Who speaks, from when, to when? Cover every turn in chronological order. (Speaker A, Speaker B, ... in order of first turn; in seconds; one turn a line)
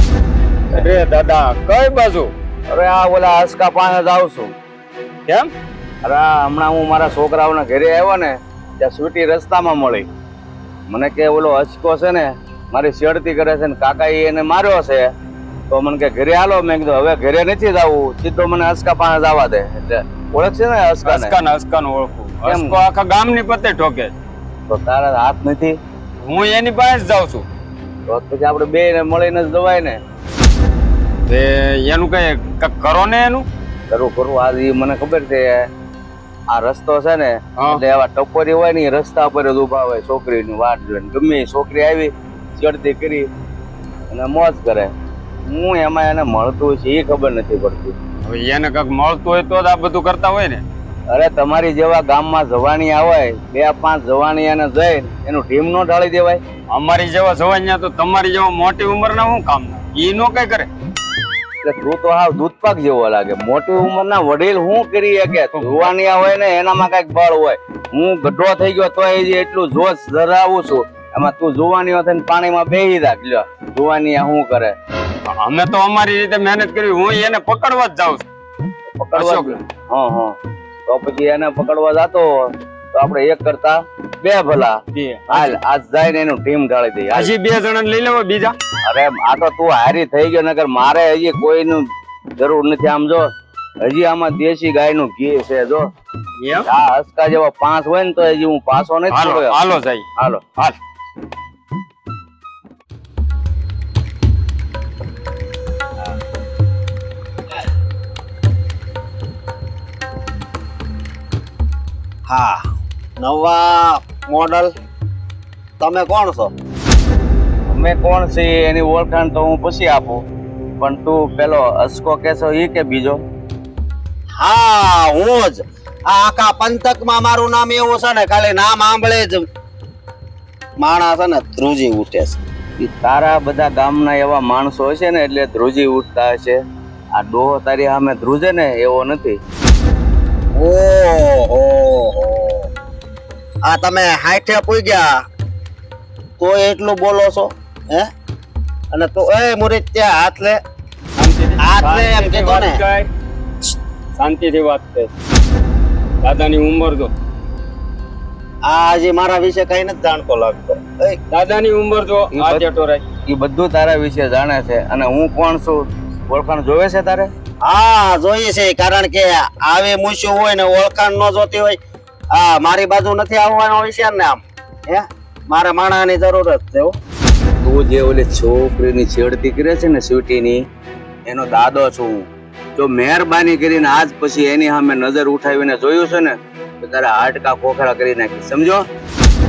Speaker A: 0.7-2.3
Speaker B: 2.7-4.5
Speaker B: 6.0-10.1
Speaker B: 10.9-15.1
Speaker B: 15.7-21.4
Speaker A: 21.0-24.1
Speaker B: 22.4-22.8
Speaker B: 24.7-25.8
Speaker A: 26.2-27.4
Speaker B: 28.1-30.0
Speaker A: 31.3-33.5
Speaker B: 33.9-35.5
Speaker B: 36.5-43.2
Speaker B: 44.1-44.9
Speaker B: 45.5-48.0
Speaker A: 48.2-50.6
Speaker B: 51.1-56.4
Speaker A: 56.7-60.7
Speaker B: 61.6-74.7
Speaker A: 65.6-65.9
Speaker A: 75.3-78.2
Speaker B: 79.0-80.3
Speaker A: 79.1-79.6
Speaker B: 80.9-87.3
Speaker A: 84.9-85.6
Speaker A: 87.1-88.5
Speaker B: 88.8-91.8
Speaker B: 92.4-93.2
Speaker B: 93.8-95.8
Speaker A: 96.4-96.7
Speaker B: 96.7-100.4
Speaker A: 99.1-100.0
Speaker C: 112.3-112.6
Speaker C: 113.2-114.7
Speaker C: 115.8-116.5
Speaker B: 117.7-120.2
Speaker B: 120.8-123.2
Speaker C: 124.4-129.4
Speaker C: 130.8-132.4
Speaker B: 132.8-136.6
Speaker B: 137.2-139.4
Speaker C: 140.5-142.7
Speaker C: 143.6-145.1
Speaker C: 146.4-148.1
Speaker C: 148.9-150.6
Speaker A: 151.2-153.1
Speaker C: 151.6-152.8
Speaker A: 154.2-155.1
Speaker A: 156.2-157.1
Speaker C: 158.7-161.2
Speaker A: 161.3-163.0
Speaker B: 162.3-162.6
Speaker B: 163.3-167.3
Speaker C: 167.6-171.8
Speaker C: 172.3-176.9
Speaker B: 177.6-180.6
Speaker B: 181.2-188.8